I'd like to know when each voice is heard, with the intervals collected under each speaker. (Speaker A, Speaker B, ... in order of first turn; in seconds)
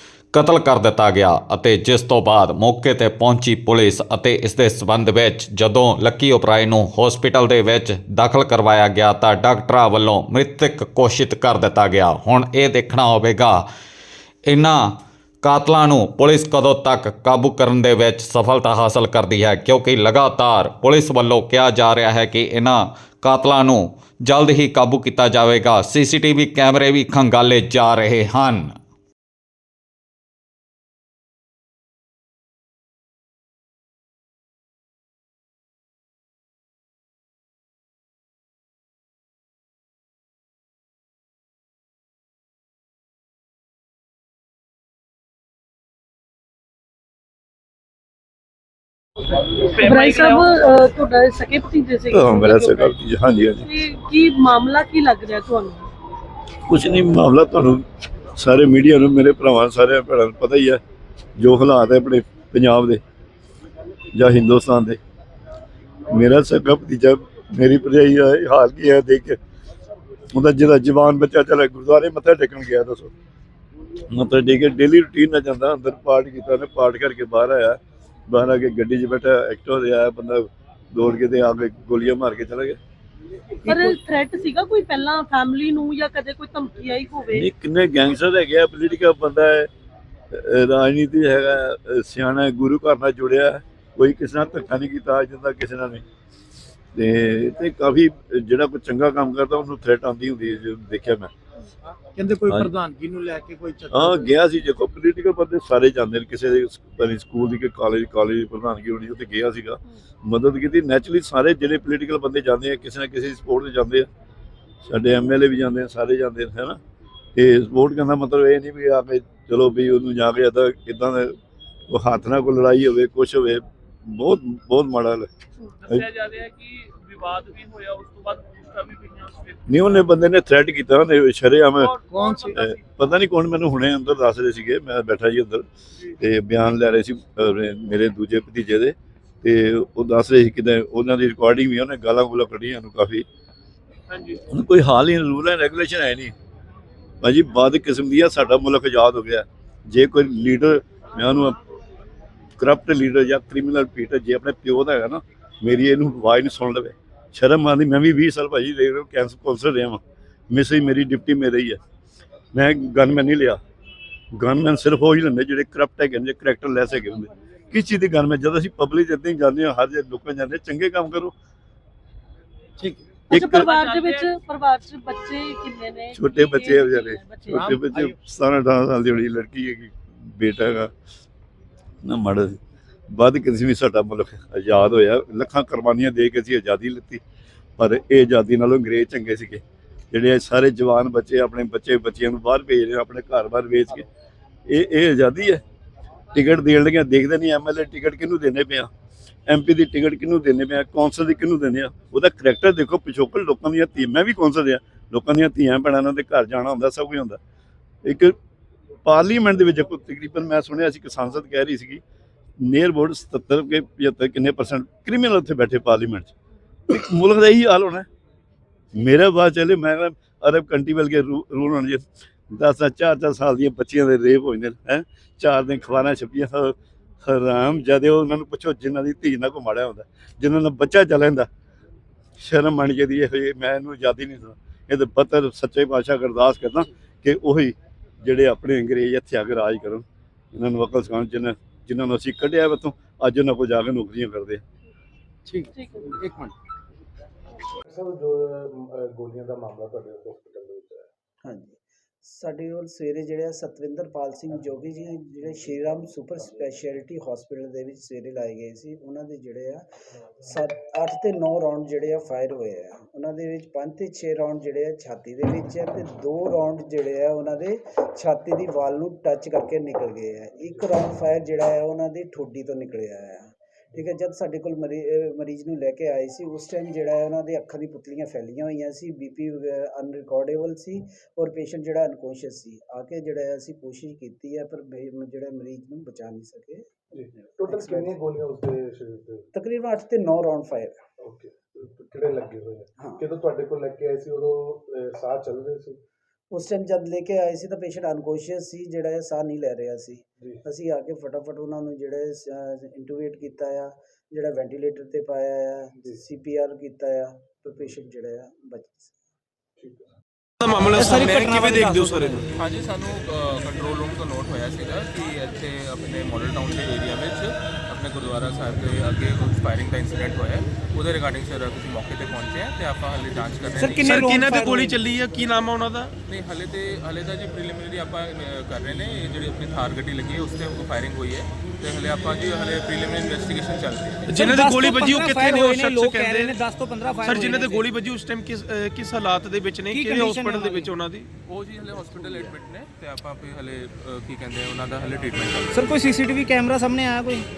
Speaker A: 0.3-13.6, 14.5-28.7
Speaker B: 49.7-53.0, 53.6-55.9, 83.6-87.4, 173.3-177.8, 245.7-246.1
Speaker C: 52.1-53.7, 56.7-57.8, 58.4-60.8, 61.4-63.0, 64.1-65.0, 66.1-69.4, 70.3-73.1, 74.1-82.8, 87.3-89.7, 90.3-96.0, 96.9-101.3, 102.5-102.7, 103.9-114.1, 114.8-116.8, 117.3-121.4, 121.9-125.3, 129.7-135.6, 136.2-143.2, 144.5-146.3, 147.2-151.6, 152.6-161.8, 162.5-163.6, 164.3-171.3, 173.3-173.7, 176.1-180.9, 182.0-182.6, 183.1-187.2, 187.8-194.1, 194.7-195.6, 196.3-198.9, 199.5-207.4, 208.0-208.3, 209.0-212.0, 212.6-216.3, 216.9-218.1, 218.9-231.5, 232.4-244.6
Speaker D: 83.7-83.9, 310.9-312.5, 323.7-325.0, 334.3-337.9, 339.9-341.0, 345.7-347.4
Speaker E: 102.2-104.3, 132.0-132.6, 177.6-178.2, 245.4-246.5
Speaker F: 126.1-129.5
Speaker G: 247.9-251.1, 287.1-289.5, 291.2-296.0, 309.8-310.1
Speaker H: 251.4-259.8, 260.4-288.1, 289.5-291.0, 293.0-293.2, 296.5-309.1
Speaker I: 310.6-312.4, 324.2-326.1, 334.3-336.5, 337.3-341.3
Speaker J: 312.5-324.4, 326.2-334.3, 341.4-346.0